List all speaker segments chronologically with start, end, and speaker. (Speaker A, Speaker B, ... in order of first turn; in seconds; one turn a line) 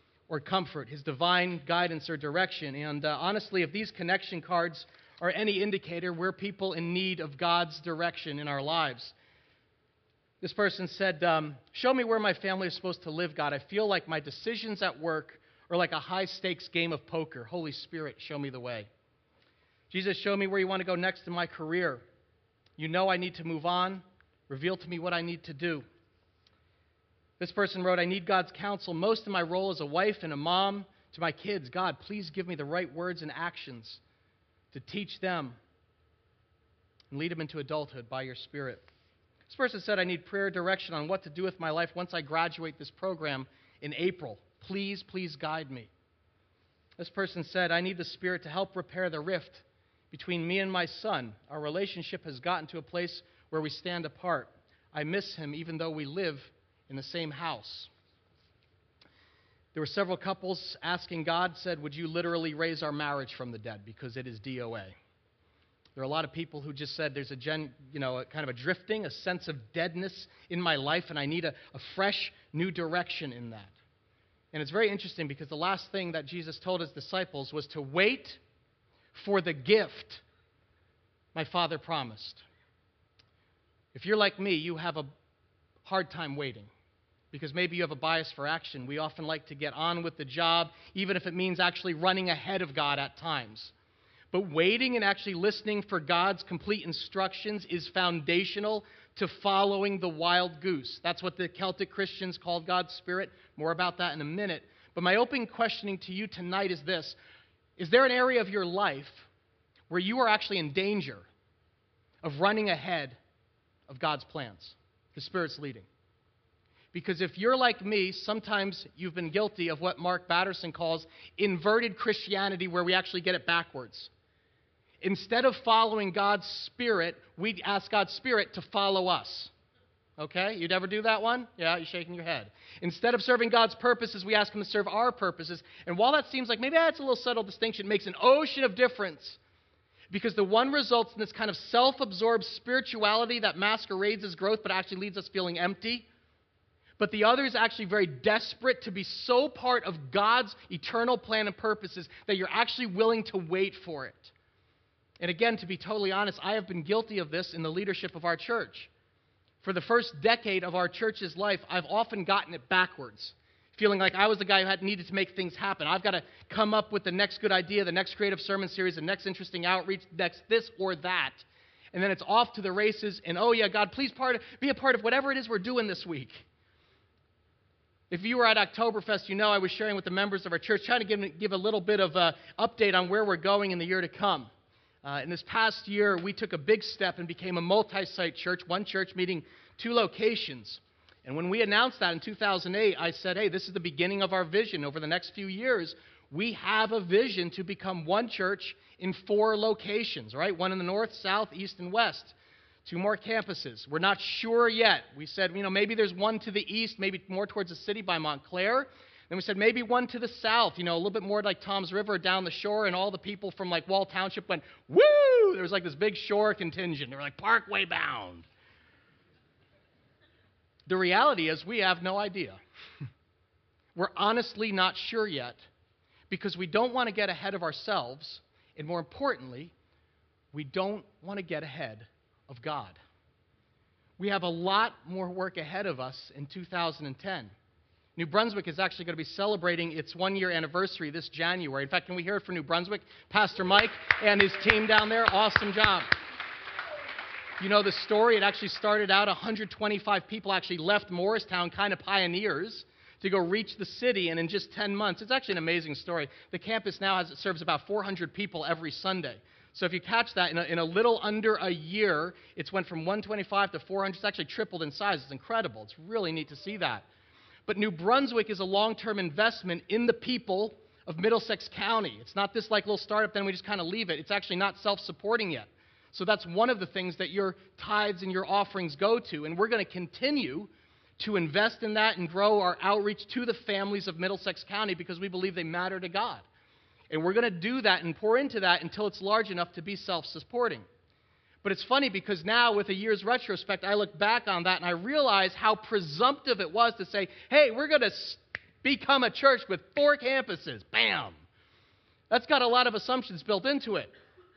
Speaker A: 0.3-9.1
Speaker A: 10.4-18.9
Speaker A: 19.9-22.0
Speaker A: 22.8-25.8
Speaker A: 27.4-34.0
Speaker A: 34.7-35.6
Speaker A: 37.1-38.8
Speaker A: 39.5-45.9
Speaker A: 47.0-57.9
Speaker A: 59.7-65.0
Speaker A: 66.0-73.7
Speaker A: 74.5-78.4
Speaker A: 79.1-80.2
Speaker A: 81.3-82.4
Speaker A: 83.9-85.1
Speaker A: 85.8-86.7
Speaker A: 87.3-93.7
Speaker A: 94.3-107.2
Speaker A: 107.8-109.2
Speaker A: 109.9-111.3
Speaker A: 112.2-113.2
Speaker A: 113.9-115.9
Speaker A: 116.9-124.1
Speaker A: 125.0-129.5
Speaker A: 130.2-139.4
Speaker A: 140.1-146.1
Speaker A: 147.0-154.3
Speaker A: 155.2-158.9
Speaker A: 159.6-176.4
Speaker A: 178.1-184.5
Speaker A: 185.0-218.5
Speaker A: 220.9-222.6
Speaker A: 223.9-225.6
Speaker A: 226.3-229.7
Speaker A: 230.5-233.0
Speaker A: 234.2-237.5
Speaker A: 238.2-246.1
Speaker A: 247.6-267.1
Speaker A: 267.7-286.4
Speaker A: 287.1-290.9
Speaker A: 291.6-301.4
Speaker A: 302.3-304.1